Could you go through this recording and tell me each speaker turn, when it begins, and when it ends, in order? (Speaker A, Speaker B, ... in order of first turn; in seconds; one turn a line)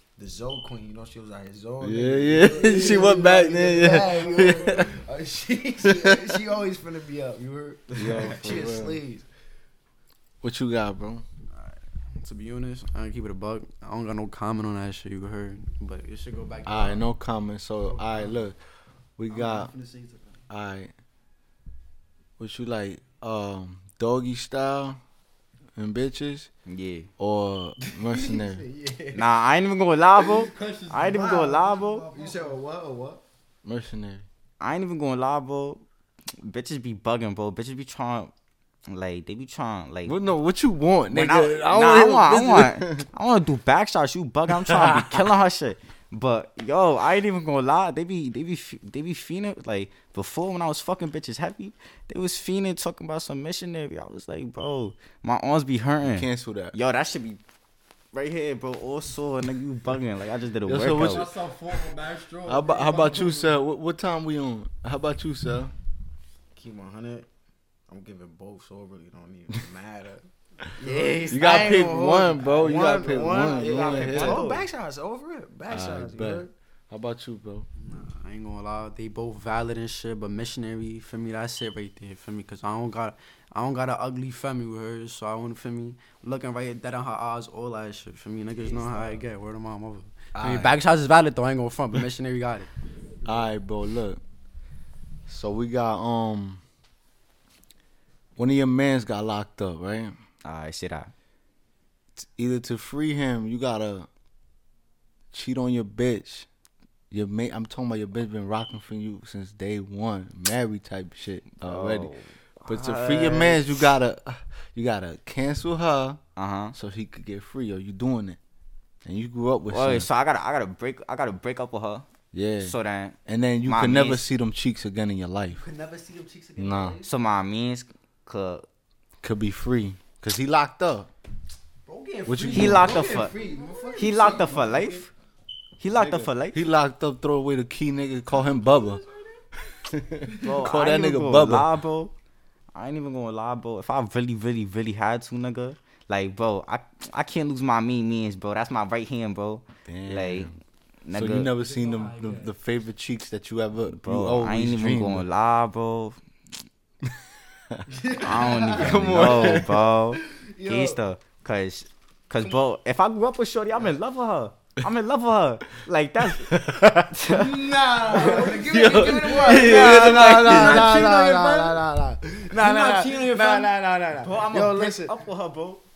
Speaker A: 0.2-9.2
Speaker B: 1.8-4.9
Speaker C: 2.4-3.1
Speaker C: 4.4-4.7
Speaker B: 5.8-6.4
Speaker B: 7.9-9.0
Speaker B: 10.4-11.2
Speaker C: 11.6-17.1
Speaker B: 16.6-18.6
Speaker C: 17.9-18.4
Speaker B: 19.2-19.7
Speaker C: 19.3-20.4
Speaker B: 20.5-20.9
Speaker B: 22.4-25.0
Speaker B: 25.8-26.5
Speaker D: 26.7-27.1
Speaker B: 27.2-28.6
Speaker C: 27.8-29.2
Speaker D: 29.1-32.1
Speaker C: 30.2-32.6
Speaker A: 31.1-31.5
Speaker A: 32.1-33.2
Speaker B: 33.6-34.2
Speaker D: 34.6-35.8
Speaker D: 36.4-38.3
Speaker D: 38.9-40.2
Speaker B: 40.1-43.1
Speaker D: 41.1-57.4
Speaker B: 44.6-45.2
Speaker B: 56.0-56.8
Speaker D: 58.1-61.3
Speaker B: 60.6-61.3
Speaker C: 61.0-63.5
Speaker B: 62.5-65.7
Speaker A: 66.5-67.3
Speaker A: 67.9-76.5
Speaker C: 70.8-71.3
Speaker B: 71.3-74.4
Speaker D: 73.6-74.6
Speaker B: 75.7-77.7
Speaker C: 77.8-92.7
Speaker A: 88.6-89.2
Speaker B: 90.3-90.8
Speaker B: 93.2-94.2
Speaker B: 95.3-96.6
Speaker B: 98.4-100.1
Speaker D: 100.4-101.1
Speaker B: 102.2-104.1
Speaker B: 105.3-106.5
Speaker B: 107.1-112.1
Speaker D: 111.6-113.9
Speaker B: 112.7-116.2
Speaker D: 116.4-116.7
Speaker B: 116.7-118.4
Speaker B: 119.0-120.1
Speaker D: 119.7-122.1
Speaker B: 122.3-122.8
Speaker D: 122.6-124.2
Speaker B: 123.3-125.6
Speaker C: 125.6-127.1
Speaker B: 126.6-127.0
Speaker D: 127.0-128.7
Speaker B: 129.2-131.1
Speaker C: 131.9-135.1
Speaker B: 132.3-133.1
Speaker D: 132.5-133.3
Speaker A: 133.4-134.4
Speaker D: 133.9-135.1
Speaker D: 135.8-136.6
Speaker B: 135.9-139.0
Speaker C: 138.4-139.3
Speaker B: 139.6-141.7
Speaker D: 140.4-142.1
Speaker D: 142.7-150.5
Speaker B: 149.9-150.6
Speaker D: 151.1-151.5
Speaker B: 151.1-155.2
Speaker C: 151.6-152.5
Speaker D: 153.9-156.2
Speaker A: 158.0-159.6
Speaker C: 158.1-158.8
Speaker D: 158.2-168.5
Speaker B: 158.7-159.8
Speaker A: 160.6-160.9
Speaker B: 166.3-167.1
Speaker A: 167.3-175.1
Speaker C: 168.0-171.2
Speaker B: 168.4-171.8
Speaker D: 169.5-170.9
Speaker C: 172.6-173.6
Speaker D: 173.0-173.7
Speaker D: 174.2-175.8